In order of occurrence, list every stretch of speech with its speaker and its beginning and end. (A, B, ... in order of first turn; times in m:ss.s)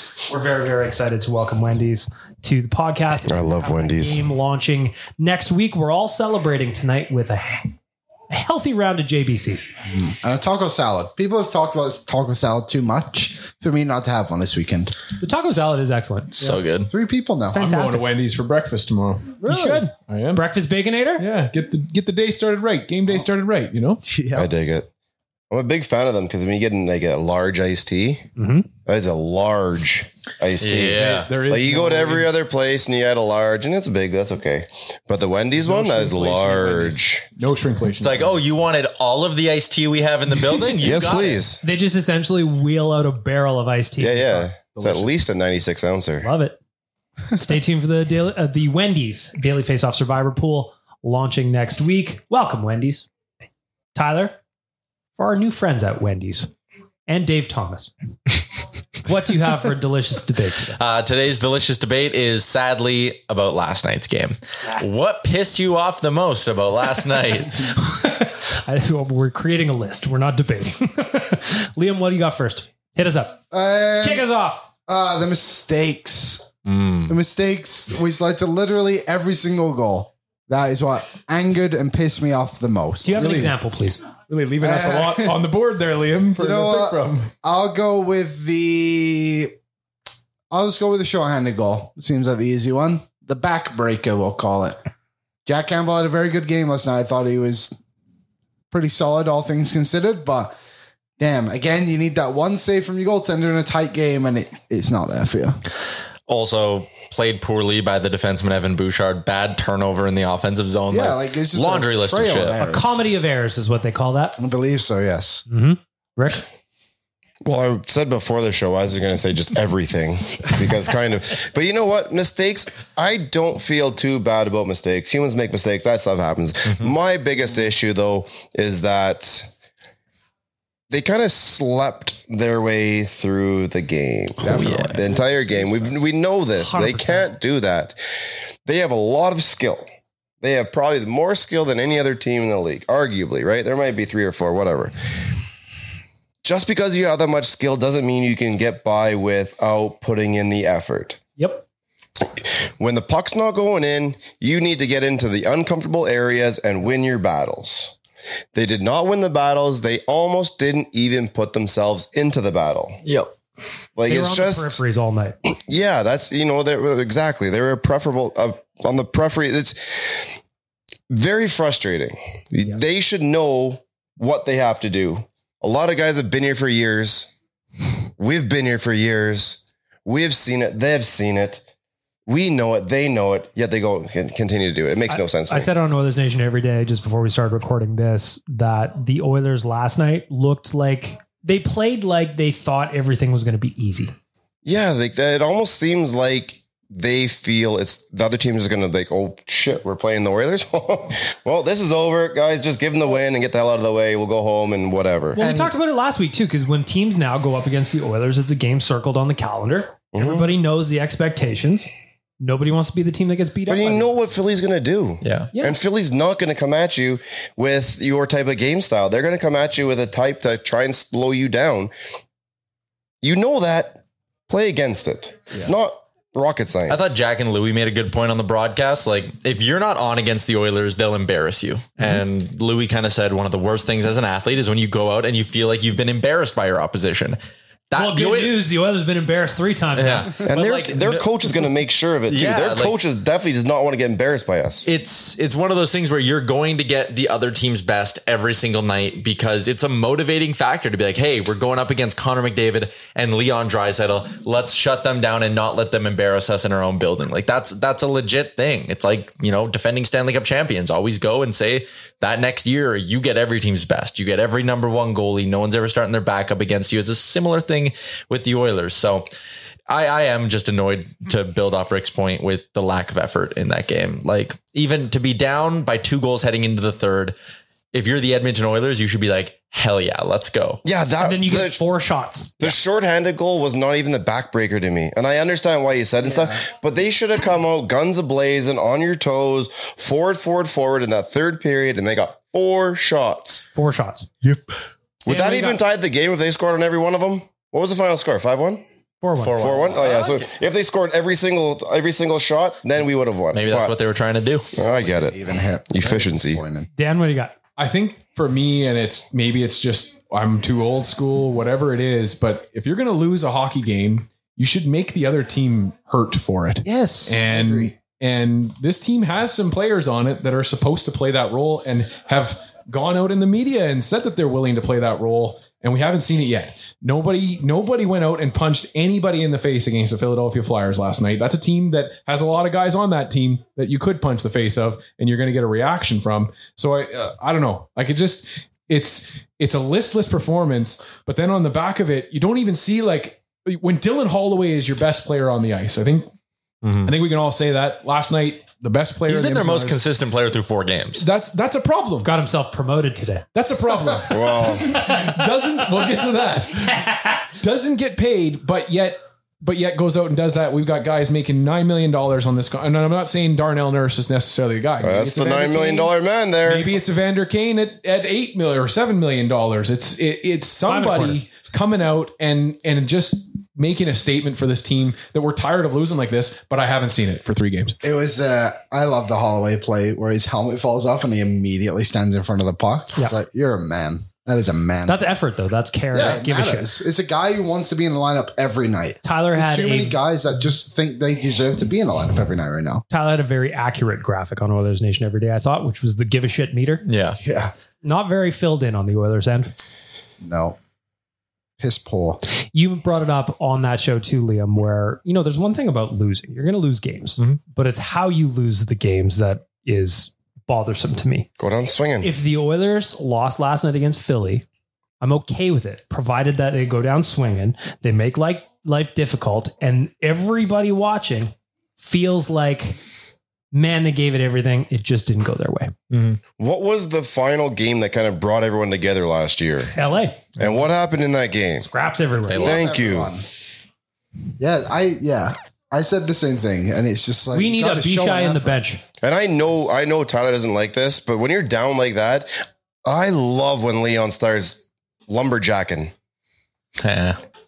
0:00.3-0:07.7 A
0:03.3-0:04.2 B
0:08.3-0:09.7 A
0:09.9-0:15.0 C
0:15.2-0:16.6 A
0:16.4-0:16.9 D
0:16.9-0:17.6 C
0:17.5-0:18.1 A
0:17.6-0:19.4 E
0:19.4-0:19.9 C
0:19.5-0:21.3 A
0:20.1-0:20.5 E
0:21.2-0:24.0 E
0:24.0-0:24.5 C
0:24.4-0:24.9 B
0:25.5-0:28.2 B
0:28.4-0:28.7 A
0:28.9-0:37.2 B
0:30.6-0:31.3 D
0:31.0-0:32.3 E
0:35.6-0:38.4 E
0:38.0-0:41.4 D
0:40.8-0:41.6 B
0:41.6-0:44.5 A
0:44.0-0:46.3 B
0:44.8-0:45.2 E
0:46.2-0:46.6 A
0:47.4-0:53.1 A
0:54.0-0:54.4 A
0:55.2-0:56.5 A
0:57.1-0:57.9 A
0:59.0-1:00.8 A
1:00.8-1:07.7 D
1:07.9-1:13.4 A
1:13.5-1:14.3 C
1:14.0-1:14.7 A
1:14.9-1:16.5 C
1:16.7-1:17.2 D
1:17.1-1:23.4 C
1:23.0-1:24.1 A
1:23.2-1:23.6 E
1:24.3-1:27.3 E
1:24.6-1:25.4 C
1:26.4-1:29.5 C
1:30.5-1:34.8 C
1:35.5-1:37.8 C
1:38.7-1:40.5 C
1:41.2-1:45.6 C
1:46.3-1:52.6 D
1:50.9-1:53.0 C
1:52.6-1:54.4 A
1:54.4-1:55.5 C
1:55.5-1:56.4 A
1:57.4-2:09.5 B
2:06.7-2:06.9 D
2:10.9-2:18.0 B
2:14.4-2:16.1 C
2:14.5-2:15.0 D
2:16.6-2:17.3 A
2:18.6-2:19.9 B
2:20.4-2:25.0 B
2:26.4-2:31.2 B
2:31.4-2:31.6 A
2:32.8-2:37.9 B
2:38.5-2:43.0 B
2:44.0-2:44.8 B
2:44.1-2:45.4 A
2:45.5-2:50.3 B
2:51.1-2:57.3 B
2:58.2-3:01.6 B
3:02.3-3:05.7 B
3:05.1-3:14.1 A
3:14.6-3:25.4 B
3:25.4-3:34.1 A
3:25.4-3:25.7 D
3:30.1-3:30.6 B
3:33.7-3:41.9 B
3:35.2-3:35.5 D
3:35.5-3:35.8 A
3:43.2-3:47.2 B
3:46.9-3:57.4 D
3:57.9-3:58.6 D
3:57.9-4:00.4 A
4:00.0-4:01.3 D
4:00.4-4:04.9 B
4:02.3-4:03.0 D
4:04.8-4:29.3 D
4:29.9-4:37.4 D
4:37.9-4:40.8 D
4:40.8-4:41.8 B
4:41.2-4:42.6 A
4:42.6-4:53.6 B
4:46.2-4:46.6 C
4:53.7-4:54.3 A
4:55.2-4:58.8 B
4:55.3-4:55.8 A
4:59.2-4:59.6 A
4:59.4-5:00.5 D
4:59.6-5:03.9 B
5:03.5-5:04.7 D
5:04.8-5:05.4 B
5:04.8-5:06.9 C
5:05.9-5:06.6 B
5:07.0-5:07.6 A
5:07.8-5:46.3 E
5:16.8-5:17.9 C
5:46.8-5:47.1 D
5:47.0-5:50.0 E
5:49.3-5:51.2 D
5:51.2-5:52.3 E
5:52.2-5:53.4 A
5:53.6-6:18.0 E
5:54.3-5:54.9 B
6:05.0-6:07.0 B
6:10.8-6:11.4 A
6:18.0-6:25.3 C
6:25.1-6:26.9 A
6:26.1-6:33.0 C
6:29.2-6:30.2 A
6:33.1-6:37.0 A
6:37.0-6:37.4 D
6:37.4-6:37.7 C
6:38.0-6:39.7 A
6:40.4-6:40.8 C
6:41.8-6:42.4 C
6:42.7-6:51.5 A
6:51.6-6:52.3 B
6:52.2-6:54.6 A
6:55.2-7:03.0 A
7:03.7-7:05.9 A
7:06.1-7:06.4 D
7:06.6-7:09.9 B
7:09.9-7:10.6 A
7:10.6-7:11.9 B
7:11.8-7:12.8 A
7:12.5-7:12.9 D
7:12.5-7:13.5 C
7:12.5-7:13.3 B
7:14.6-7:18.8 C
7:17.5-7:19.0 A
7:19.2-7:22.5 B
7:23.0-7:26.1 B
7:27.0-7:27.4 D